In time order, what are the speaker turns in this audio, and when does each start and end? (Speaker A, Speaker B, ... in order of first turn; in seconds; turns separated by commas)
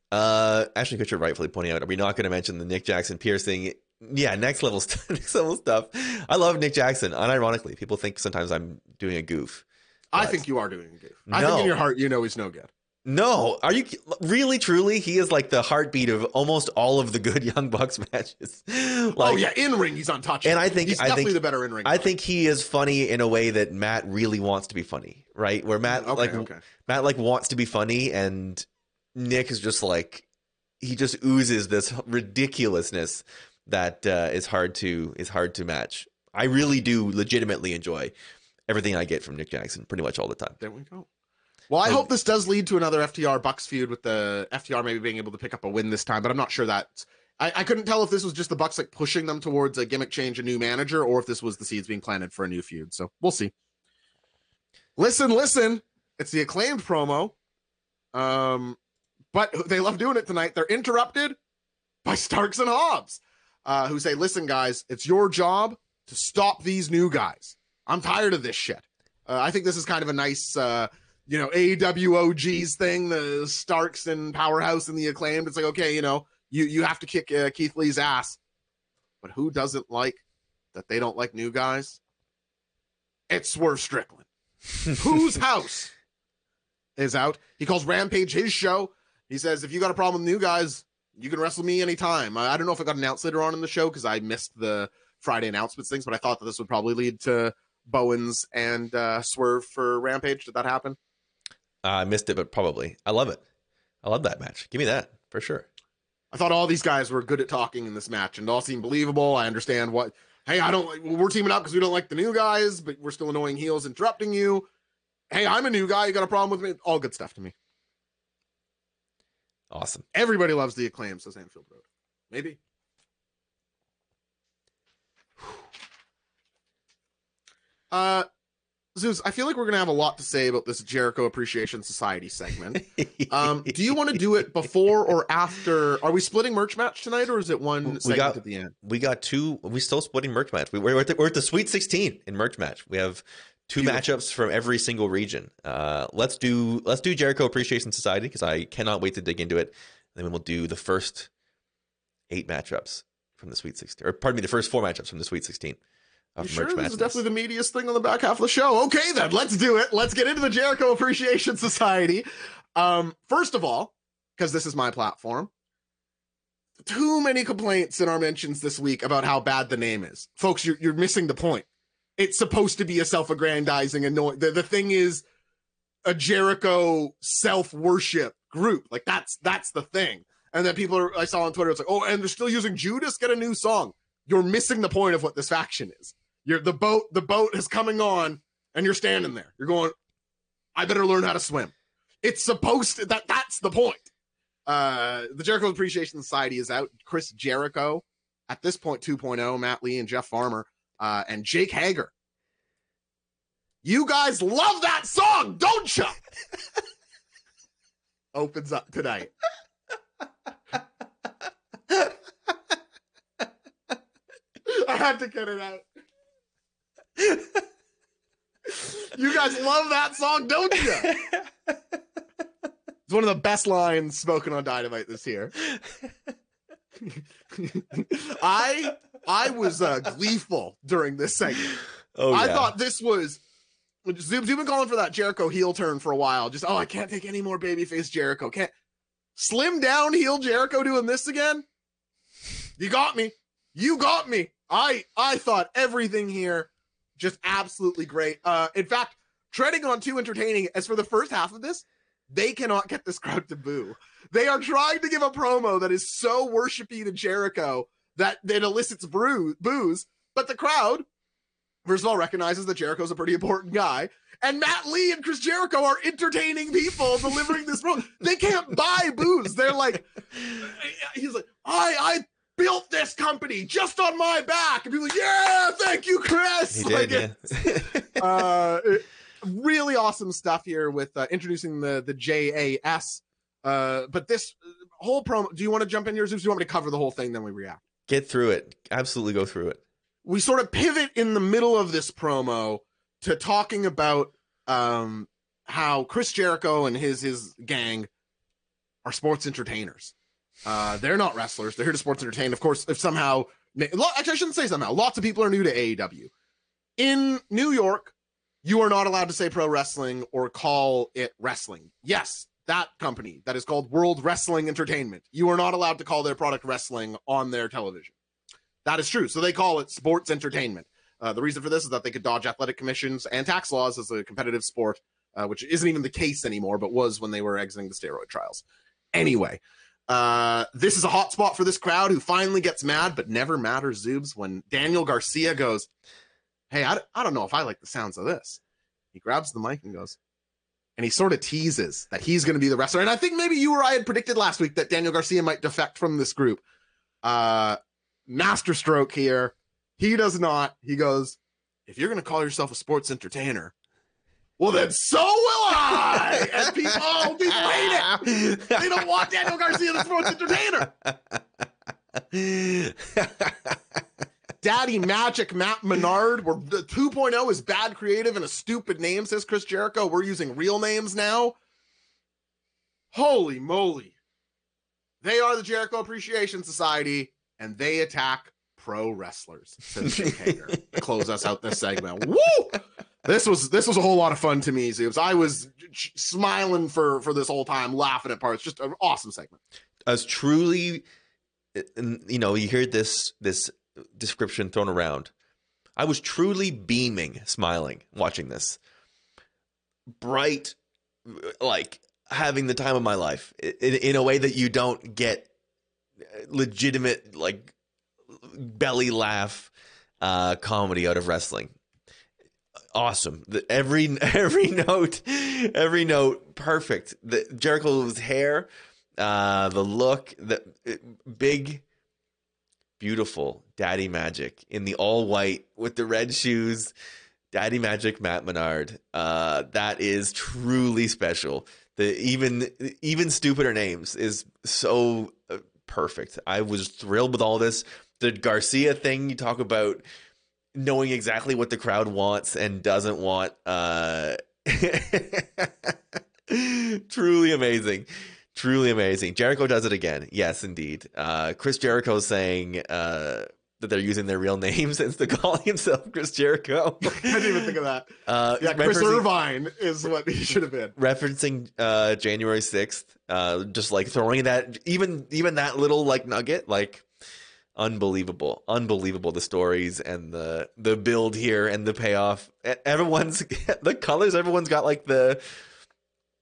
Speaker A: 0.1-10.4, Speaker B: 10.1-12.7, Speaker A: 11.3-11.8, Speaker A: 13.1-19.4, Speaker B: 19.2-22.1, Speaker A: 20.4-30.2, Speaker B: 25.9-26.6, Speaker A: 30.8-38.1, Speaker A: 38.7-40.6, Speaker B: 40.6-41.1, Speaker B: 41.7-53.5, Speaker B: 55.0-57.4, Speaker B: 58.1-58.8, Speaker B: 59.3-61.4, Speaker B: 62.0-78.4, Speaker B: 79.2-80.2, Speaker B: 80.7-82.0, Speaker B: 83.3-84.3, Speaker B: 84.9-85.9, Speaker B: 87.0-101.0, Speaker A: 101.8-103.4, Speaker A: 104.0-105.7, Speaker B: 106.3-114.7, Speaker B: 115.3-117.5, Speaker A: 119.7-120.1, Speaker B: 120.1-122.6, Speaker B: 127.9-128.3, Speaker B: 128.9-138.7, Speaker A: 132.9-133.8, Speaker A: 137.8-151.3, Speaker B: 143.8-144.1, Speaker A: 152.3-155.8, Speaker A: 156.4-157.2, Speaker B: 156.4-165.5, Speaker B: 166.8-175.2, Speaker B: 176.1-189.9, Speaker B: 190.8-194.1, Speaker B: 194.7-202.1, Speaker B: 203.8-206.2, Speaker B: 208.3-209.3, Speaker B: 214.7-215.8, Speaker B: 218.7-221.2, Speaker B: 223.1-225.5, Speaker B: 227.0-231.7, Speaker A: 232.2-232.7, Speaker B: 232.3-233.4, Speaker B: 234.1-238.7, Speaker B: 239.4-241.7, Speaker B: 242.8-261.1, Speaker B: 261.9-287.8, Speaker A: 276.7-278.2, Speaker A: 288.1-289.8, Speaker B: 290.2-298.1, Speaker B: 299.1-306.3, Speaker B: 307.0-318.1, Speaker B: 318.9-335.9, Speaker B: 336.7-338.6, Speaker B: 339.1-340.2, Speaker B: 341.0-346.6, Speaker B: 347.2-353.7, Speaker B: 354.6-360.9, Speaker A: 358.1-358.8, Speaker A: 361.1-361.4, Speaker A: 362.2-363.8, Speaker B: 364.6-371.6, Speaker B: 373.1-374.1, Speaker B: 375.2-389.6, Speaker A: 380.1-380.8, Speaker A: 390.1-391.0, Speaker A: 391.8-395.3, Speaker A: 396.0-398.8, Speaker A: 400.2-405.5, Speaker A: 406.3-407.7, Speaker A: 408.4-409.7, Speaker A: 410.2-411.7, Speaker A: 412.9-418.7, Speaker A: 419.2-421.8, Speaker A: 423.0-426.9, Speaker A: 427.5-440.0, Speaker A: 440.8-445.9, Speaker A: 446.5-457.7, Speaker B: 457.1-460.9, Speaker A: 458.3-459.3, Speaker A: 461.0-467.1, Speaker A: 467.8-475.4